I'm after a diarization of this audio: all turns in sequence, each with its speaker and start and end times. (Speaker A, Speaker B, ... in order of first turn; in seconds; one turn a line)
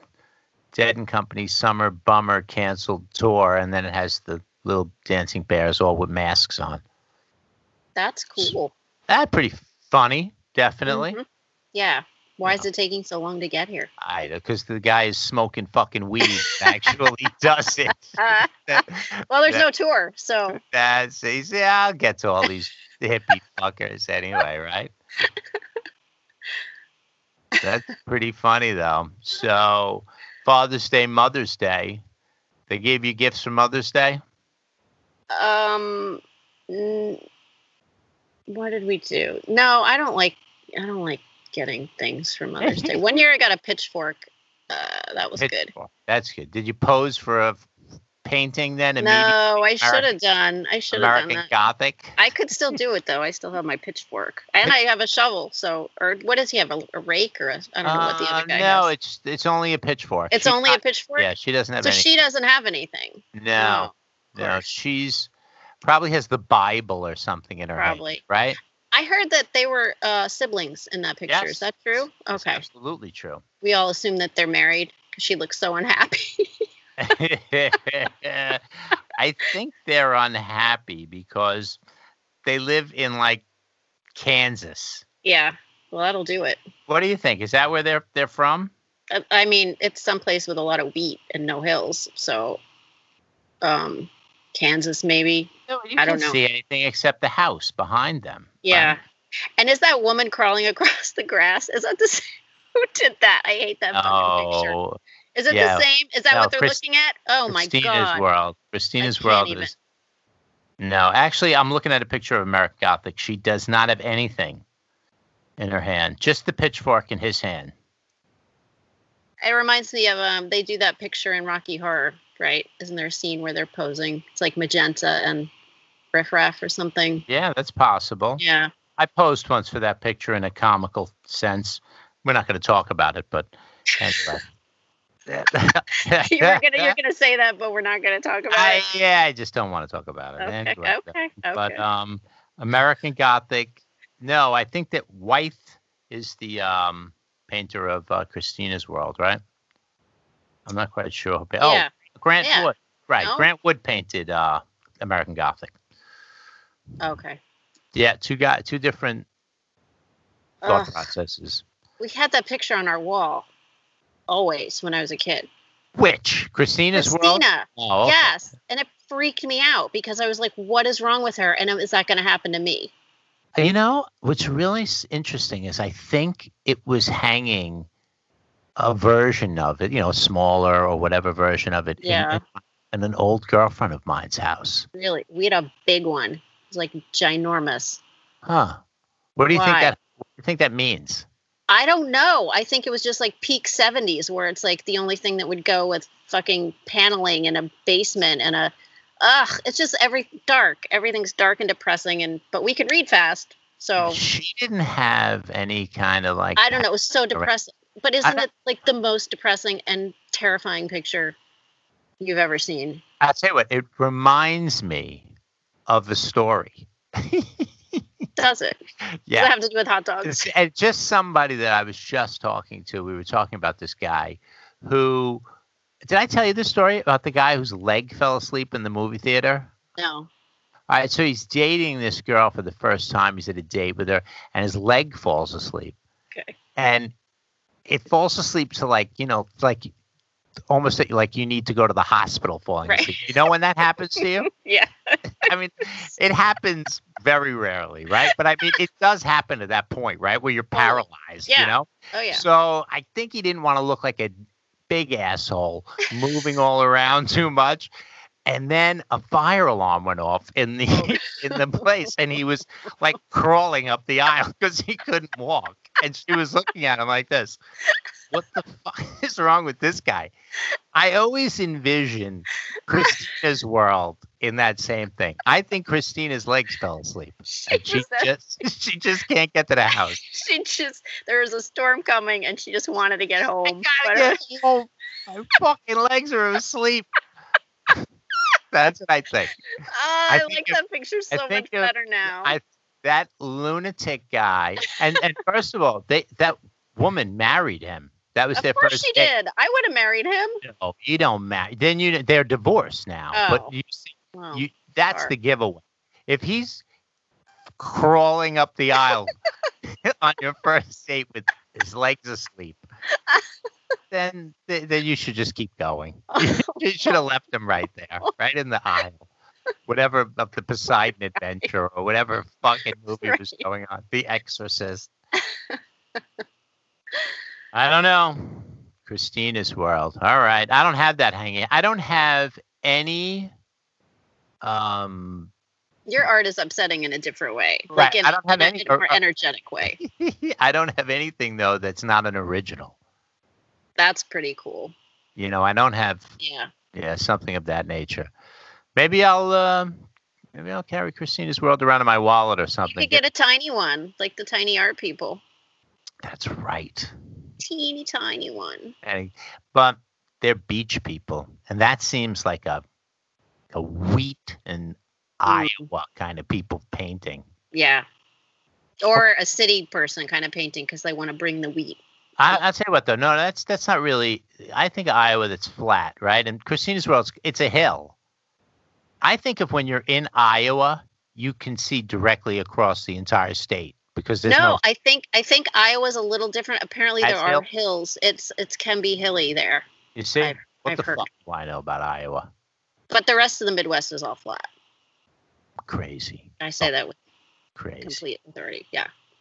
Speaker A: 0.7-6.8
Speaker B: 8.0-8.7
Speaker A: 9.1-11.2
Speaker B: 10.8-13.9
Speaker A: 14.0-19.6
Speaker B: 18.1-20.6
Speaker A: 20.5-24.9
Speaker A: 27.6-32.0
Speaker A: 32.7-34.2
Speaker B: 35.3-37.2
Speaker B: 38.5-45.7
Speaker A: 42.6-43.0
Speaker A: 45.4-47.7
Speaker A: 48.2-50.1
Speaker B: 49.0-51.5
Speaker A: 50.9-52.2
Speaker B: 52.2-58.9
Speaker A: 57.8-62.1
Speaker B: 60.3-64.6
Speaker A: 63.3-65.3
Speaker A: 65.8-68.6
Speaker B: 67.8-68.2
Speaker B: 68.9-72.6
Speaker A: 71.3-73.4
Speaker B: 73.6-76.5
Speaker A: 77.0-78.6
Speaker A: 79.2-81.8
Speaker A: 82.4-83.4
Speaker A: 84.1-85.0
Speaker B: 85.2-86.6
Speaker A: 86.9-88.7
Speaker B: 89.1-92.6
Speaker B: 93.6-96.4
Speaker A: 95.7-99.0
Speaker B: 98.6-99.0
Speaker B: 99.6-102.2
Speaker B: 102.8-104.8
Speaker A: 103.9-105.0
Speaker B: 105.3-108.2
Speaker A: 105.5-106.8
Speaker A: 107.5-109.7
Speaker B: 109.0-109.7
Speaker A: 110.8-114.6
Speaker A: 115.6-117.7
Speaker B: 119.4-125.5
Speaker B: 126.1-127.2
Speaker A: 127.3-128.4
Speaker B: 128.4-128.7
Speaker A: 129.0-134.4
Speaker A: 135.3-136.9
Speaker B: 136.2-138.9
Speaker A: 138.5-149.4
Speaker B: 140.4-141.8
Speaker A: 150.7-155.7
Speaker B: 151.6-151.9
Speaker B: 152.4-153.5
Speaker B: 157.0-157.4
Speaker A: 157.9-159.2
Speaker B: 160.6-161.1
Speaker A: 160.6-161.6
Speaker B: 162.0-163.5
Speaker B: 164.3-165.5
Speaker A: 166.0-168.3
Speaker B: 166.9-172.9
Speaker A: 173.6-177.9
Speaker A: 178.8-184.8
Speaker B: 182.0-182.4
Speaker B: 184.9-188.0
Speaker A: 188.4-188.8
Speaker A: 189.3-191.2
Speaker B: 189.5-189.9
Speaker B: 191.7-204.2
Speaker A: 204.0-207.5
Speaker B: 206.6-211.3
Speaker B: 212.2-213.0
Speaker A: 213.2-215.2
Speaker A: 215.9-217.7
Speaker B: 218.4-218.8
Speaker B: 219.3-220.5
Speaker A: 220.2-225.4
Speaker A: 226.0-229.7
Speaker B: 230.0-230.3
Speaker A: 230.9-235.9
Speaker A: 236.8-237.1
Speaker A: 237.8-239.9
Speaker A: 240.7-244.5
Speaker B: 242.8-243.3
Speaker B: 244.1-245.4
Speaker A: 245.4-254.3
Speaker B: 250.7-252.4
Speaker A: 254.9-257.9
Speaker A: 258.5-267.6
Speaker B: 260.9-261.8
Speaker A: 268.3-270.3
Speaker A: 270.9-280.2
Speaker B: 277.5-278.3
Speaker B: 280.1-284.4
Speaker A: 283.6-287.1
Speaker A: 288.7-289.5
Speaker B: 289.8-292.6
Speaker A: 290.3-290.8
Speaker A: 291.3-299.3
Speaker B: 298.6-300.6
Speaker A: 300.6-306.8
Speaker B: 303.3-303.7
Speaker B: 304.3-305.3
Speaker A: 307.8-309.3
Speaker A: 310.0-312.8
Speaker A: 314.1-319.3
Speaker B: 316.3-317.2
Speaker A: 319.9-325.1
Speaker B: 323.2-323.6
Speaker A: 327.7-333.5
Speaker A: 334.6-335.5
Speaker B: 336.1-340.0
Speaker A: 337.9-339.1
Speaker A: 340.0-342.9
Speaker B: 344.0-344.9
Speaker A: 345.4-346.3
Speaker B: 346.4-346.7
Speaker A: 346.9-348.3
Speaker A: 348.9-350.0
Speaker A: 350.5-353.2
Speaker B: 352.9-355.4
Speaker A: 356.2-357.1
Speaker B: 357.6-358.9
Speaker A: 359.0-362.8
Speaker A: 363.7-367.4
Speaker B: 365.4-365.9
Speaker B: 367.7-368.0
Speaker B: 369.0-372.0
Speaker A: 372.4-378.1
Speaker A: 379.2-384.8
Speaker B: 384.4-389.9
Speaker A: 387.2-387.6
Speaker A: 390.1-392.5
Speaker B: 390.4-391.3
Speaker B: 393.1-394.6
Speaker A: 395.9-396.9
Speaker B: 396.6-397.1
Speaker A: 397.8-398.2
Speaker B: 398.0-399.1